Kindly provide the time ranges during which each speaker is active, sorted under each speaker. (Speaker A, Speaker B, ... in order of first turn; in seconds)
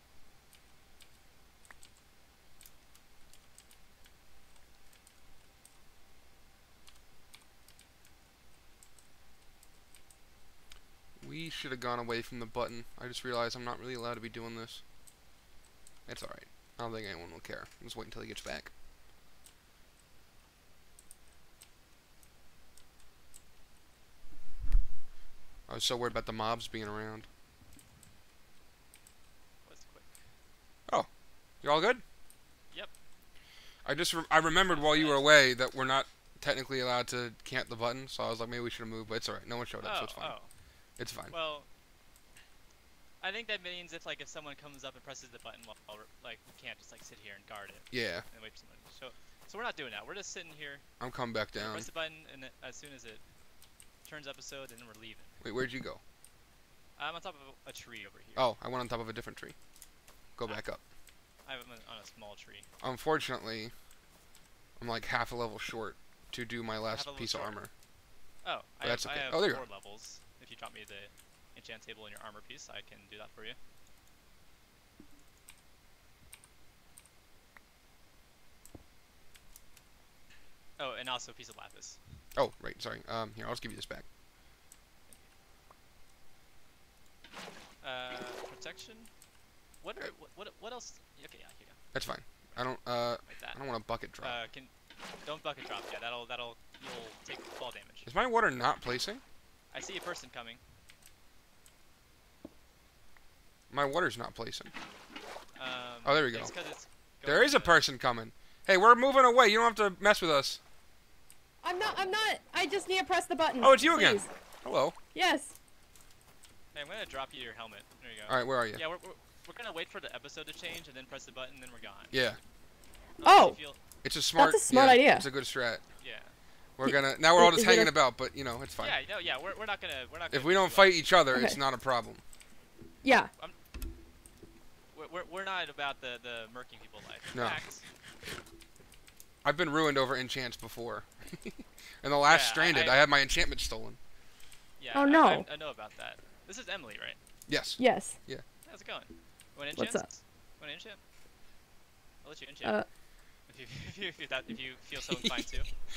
Speaker A: 11.2-14.8, 16.1-18.7, 25.7-27.3, 31.6-32.0, 33.9-40.4, 41.0-41.3, 47.9-48.3, 51.0-51.9, 55.4-56.0, 58.4-59.5, 60.4-60.8, 62.8-63.7, 64.8-67.7, 68.8-69.7, 82.4-84.0, 91.9-94.4, 98.0-99.2, 103.7-104.7, 106.0-106.5, 107.3-110.6, 113.6-115.0, 118.3-118.8, 122.1-122.4, 124.0-125.8, 126.8-129.0, 130.3-132.2, 137.3-137.6, 139.4-144.0, 147.5-148.4
Speaker B: 29.6-30.2, 34.7-35.3, 39.8-40.5, 41.3-41.7, 43.2-50.8, 51.5-53.2, 54.0-55.3, 57.0-58.5, 61.5-62.7, 66.9-67.6, 68.4-73.6, 80.8-82.0, 87.8-89.1, 89.8-91.8, 93.2-93.6, 94.2-94.7, 95.2-98.1, 99.7-100.6, 105.5-107.8, 116.7-122.2, 123.2-123.8, 126.0-126.3, 128.8-131.0, 134.9-137.8, 142.3-143.0, 144.8-147.2, 148.7-151.0, 152.2-152.8, 153.5-155.7
Speaker C: 111.6-114.3, 115.1-115.6, 123.2-123.6, 124.4-125.3, 126.8-127.9, 131.3-131.6, 133.0-133.3, 144.9-145.5, 147.8-148.2, 149.8-150.1